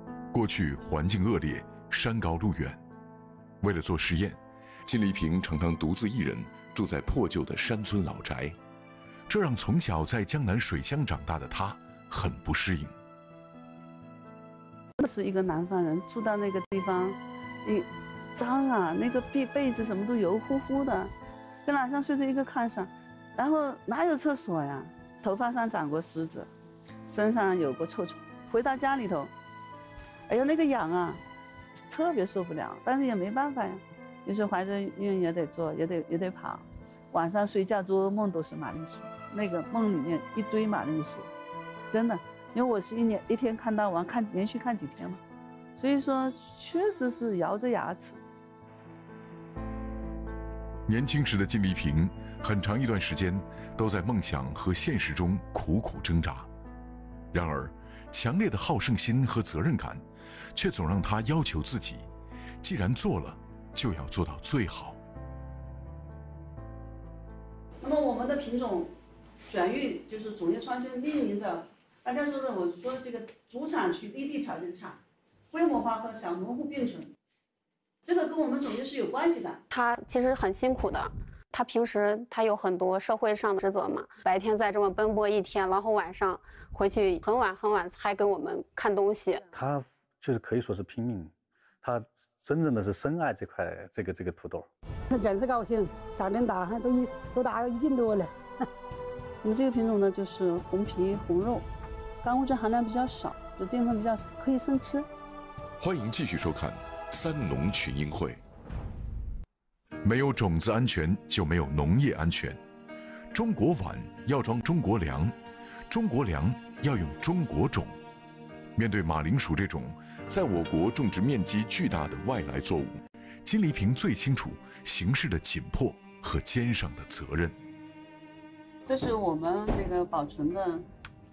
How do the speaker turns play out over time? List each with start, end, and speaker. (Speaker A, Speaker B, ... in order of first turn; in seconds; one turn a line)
Speaker A: 0.3-2.8
Speaker A: 3.6-8.6
Speaker A: 9.3-12.9
Speaker B: 15.0-21.1
Speaker B: 21.7-26.5
Speaker B: 27.1-29.3
Speaker B: 30.3-31.2
Speaker B: 31.9-41.3
Speaker B: 41.9-45.2
Speaker B: 45.8-48.2
Speaker A: 50.9-56.5
Speaker A: 57.3-60.0
Speaker A: 60.5-62.1
Speaker A: 62.6-65.0
Speaker B: 67.8-68.9
Speaker B: 69.5-75.0
Speaker B: 75.5-77.1
Speaker B: 78.0-79.6
Speaker C: 79.7-89.4
Speaker D: 89.5-94.7
Speaker E: 95.1-98.3
Speaker B: 99.4-101.7
Speaker B: 102.2-105.1
Speaker A: 105.8-108.4
Speaker A: 110.0-112.6
Speaker A: 113.3-115.3
Speaker A: 115.9-118.0
Speaker A: 118.8-127.6
Speaker B: 128.9-130.9